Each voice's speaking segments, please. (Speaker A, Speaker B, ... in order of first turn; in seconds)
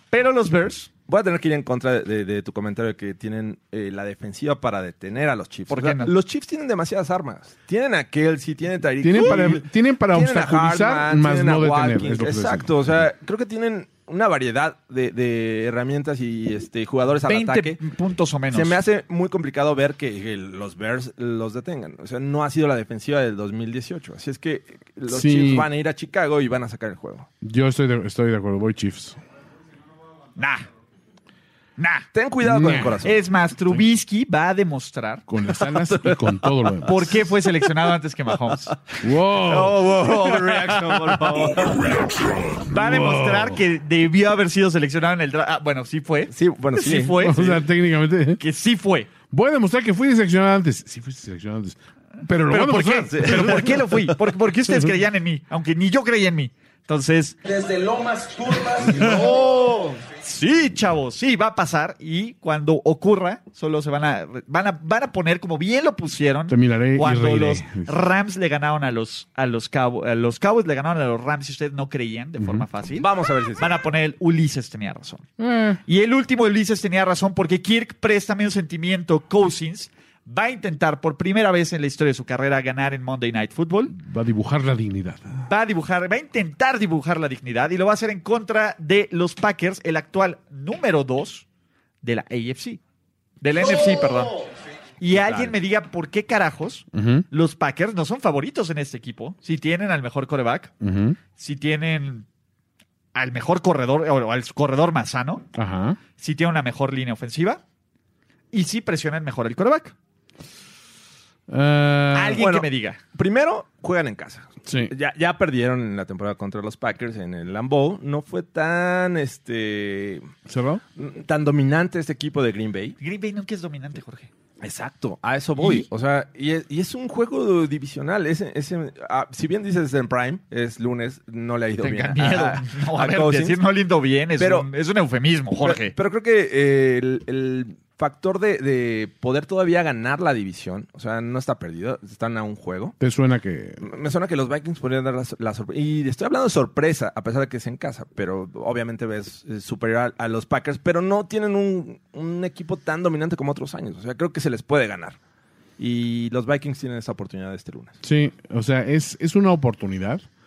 Speaker A: 0.1-0.9, 5.7-6.1, 17.2-18.8, 30.4-30.6, 31.8-32.1, 33.0-35.2, 36.8-38.8, 42.6-47.6, 48.4-49.1, 52.5-57.4, 58.7-75.3, 75.9-84.0, 85.4-91.5, 92.0-92.8, 93.4-94.5, 95.0-100.7, 101.4-102.3, 103.2-105.5, 106.2-107.6, 108.5-110.0, 112.1-113.0, 123.0-124.3, 131.8-135.9
Speaker B: 1.1-17.8, 18.5-27.3, 32.1-33.2, 35.8-36.7, 38.9-41.9, 46.3-47.6, 52.5-54.1, 73.0-73.8, 95.1-95.6, 112.3-120.3, 121.0-123.0, 124.6-133.6, 134.4-134.7, 135.6-143.0, 143.8-155.2, 155.8-158.0
Speaker C: 9.0-12.7, 25.1-25.7, 27.4-29.2, 32.4-33.0, 35.3-37.1, 39.0-40.0, 41.7-43.6, 47.2-48.4, 49.3-53.8, 66.5-68.0, 72.4-72.7, 75.4-75.8, 83.9-85.5, 96.9-97.3, 100.8-101.2, 105.5-106.0, 111.5-112.4, 114.7-114.9, 120.5-120.8, 143.0-143.8, 158.0-160.2